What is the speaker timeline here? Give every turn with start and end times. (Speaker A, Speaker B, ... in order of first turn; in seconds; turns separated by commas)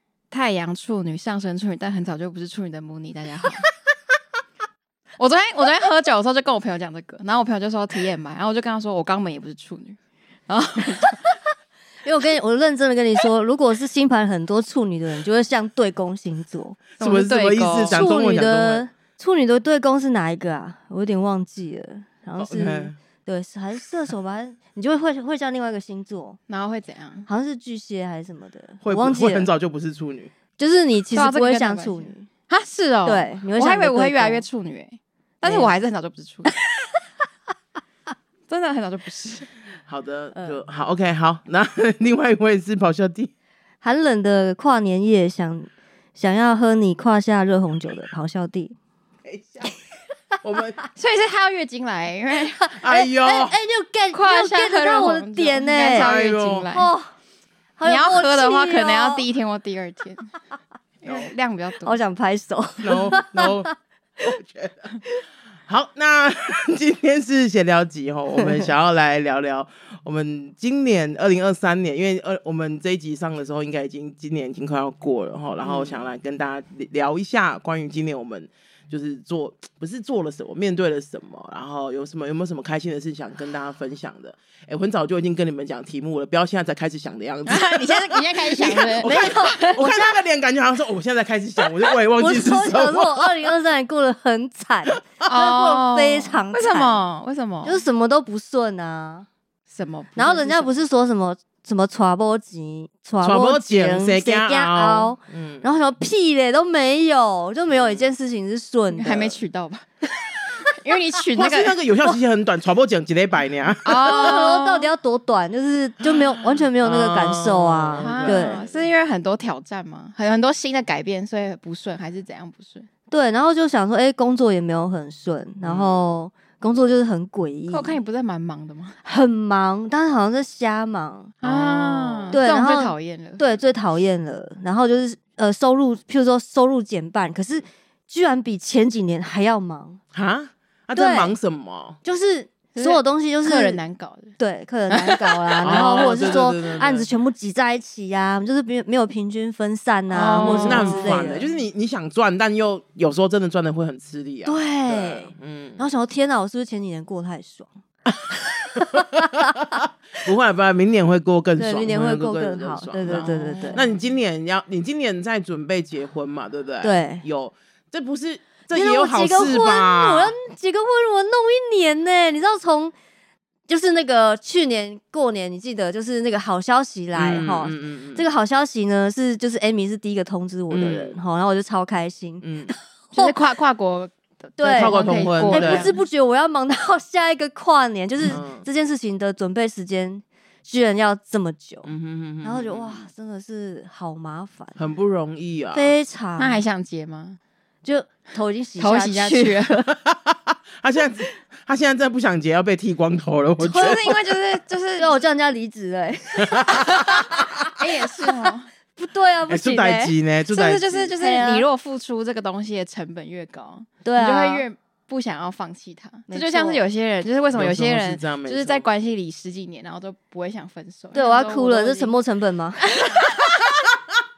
Speaker A: 0.3-3.7, Speaker A: 5.2-11.3, Speaker B: 12.0-16.9, Speaker C: 17.0-18.9, Speaker A: 17.0-18.1, Speaker B: 17.8-26.4, Speaker C: 22.4-23.0, Speaker A: 26.5-27.3, Speaker B: 27.3-29.5, Speaker C: 28.8-30.3, Speaker B: 30.6-32.3, Speaker A: 31.1-36.5, Speaker B: 33.1-34.4, Speaker B: 35.4-35.7, Speaker A: 38.5-39.5, Speaker C: 39.9-43.3, Speaker B: 40.3-40.6, Speaker B: 43.8-48.8, Speaker C: 49.2-49.8, Speaker C: 50.4-50.8, Speaker A: 50.9-52.8, Speaker C: 52.8-53.6, Speaker B: 52.8-57.1, Speaker A: 54.1-56.9, Speaker C: 55.9-56.7, Speaker B: 57.8-59.2, Speaker A: 57.8-60.3, Speaker A: 61.0-62.0, Speaker B: 61.8-63.7, Speaker C: 62.8-64.9, Speaker C: 65.7-93.5, Speaker A: 75.6-76.0, Speaker A: 87.5-89.8, Speaker B: 89.0-90.2, Speaker B: 92.1-97.0, Speaker A: 95.2-97.8, Speaker B: 97.6-99.2, Speaker A: 99.7-100.8, Speaker B: 100.2-109.4, Speaker C: 103.2-105.7, Speaker C: 107.7-108.1, Speaker A: 108.9-109.9, Speaker A: 110.6-111.8, Speaker C: 111.3-114.4, Speaker A: 113.8-114.9, Speaker B: 114.0-118.6, Speaker C: 116.1-118.9, Speaker A: 118.0-122.9, Speaker B: 123.1-128.0, Speaker C: 125.6-126.0, Speaker A: 127.7-129.0, Speaker B: 129.0-140.0, Speaker A: 131.4-133.5, Speaker C: 131.4-132.4, Speaker C: 140.1-142.0, Speaker B: 140.9-141.3, Speaker B: 142.0-143.8, Speaker A: 142.7-144.3, Speaker B: 144.4-151.5, Speaker A: 144.9-146.4, Speaker C: 145.6-147.1, Speaker A: 150.1-151.6, Speaker C: 150.3-155.8, Speaker B: 154.4-157.7, Speaker C: 158.4-170.3, Speaker B: 158.8-159.3, Speaker B: 161.6-163.9, Speaker A: 163.1-164.0, Speaker B: 166.8-167.2, Speaker B: 168.7-172.9, Speaker B: 173.7-183.4, Speaker C: 177.2-178.2, Speaker C: 180.7-181.2, Speaker C: 182.4-182.8, Speaker A: 183.1-186.0, Speaker B: 184.6-191.9, Speaker C: 184.6-185.9, Speaker C: 188.2-188.7, Speaker C: 191.8-193.1, Speaker B: 192.4-194.8, Speaker C: 194.8-195.9, Speaker B: 195.7-196.6, Speaker A: 196.4-197.4, Speaker B: 197.8-199.9, Speaker A: 198.8-199.8, Speaker C: 200.0-204.2, Speaker A: 203.6-205.2, Speaker B: 205.0-207.3, Speaker C: 206.3-207.7, Speaker A: 207.8-208.7, Speaker B: 209.0-210.2, Speaker C: 209.5-211.2, Speaker A: 210.5-222.2, Speaker B: 211.2-211.7, Speaker B: 214.0-214.7, Speaker B: 216.3-216.8, Speaker C: 217.5-218.8, Speaker B: 221.1-223.4, Speaker A: 222.9-223.2, Speaker C: 223.4-223.9